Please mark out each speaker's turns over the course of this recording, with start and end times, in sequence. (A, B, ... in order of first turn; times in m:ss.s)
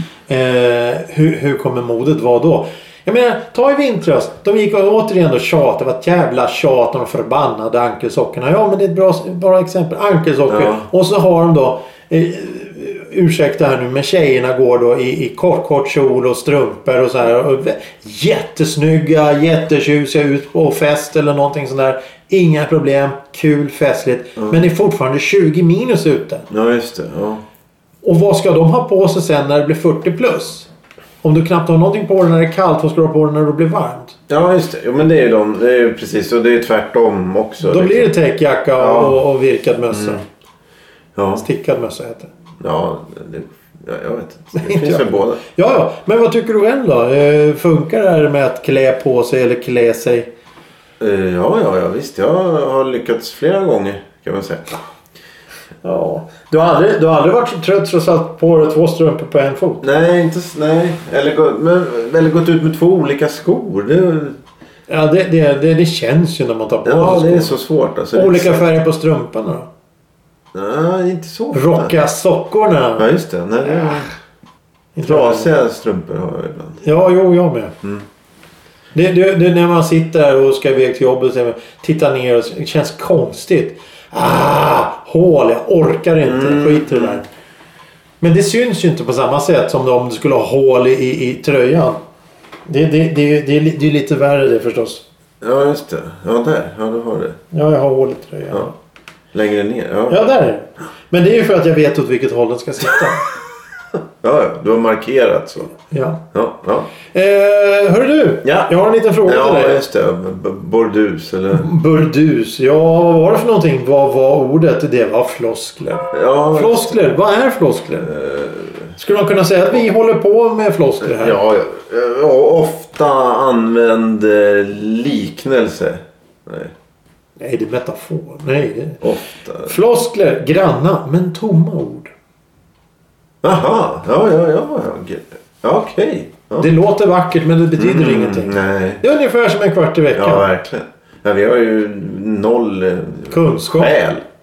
0:00.3-0:26.5 A
0:10.5-0:10.9 B
0:26.5-0:27.4 B
0:28.0-0:30.7 A
0:31.2-0:34.2 A
0:34.3-0:38.1 B
0:37.6-0:40.2 A
0:38.8-0:39.2 B
0:39.9-0:40.2 B
0:41.2-0:41.4 B
0:41.4-0:42.3 A
0:42.6-0:45.4 B
0:44.6-0:50.3 A
0:51.0-0:54.7 B
0:55.8-0:59.8 A
0:59.8-1:04.4 B
1:04.9-1:07.6 A
1:06.8-1:08.8 B
1:08.1-1:09.7 A
1:10.5-1:11.9 B
1:11.5-1:13.1 A
1:13.0-1:14.1 B
1:15.0-1:15.5 A
1:15.1-1:16.8 B
1:16.8-1:17.8 A
1:18.9-1:27.2 A
1:26.2-1:27.2 B
1:28.2-1:32.0 A
1:32.7-1:35.0 A
1:35.4-1:37.4 B
1:37.5-1:38.7 A
1:39.3-1:40.2 B
1:40.1-1:43.3 A
1:44.2-1:45.8 B
1:45.9-1:46.2 A
1:46.3-1:46.9 B
1:47.1-1:49.8 A
1:48.4-1:51.7 B
1:51.5-1:58.1 A
1:56.1-1:57.0 B
1:58.1-1:58.9 B
1:59.0-2:01.4 A
2:01.0-2:06.7 B
2:07.4-2:09.0 A
2:09.0-2:09.8 B
2:09.7-2:12.1 A
2:13.4-2:16.7 B
2:16.6-2:20.5 A
2:17.8-2:19.0 B
2:20.2-2:24.2 B
2:23.3-2:24.0 A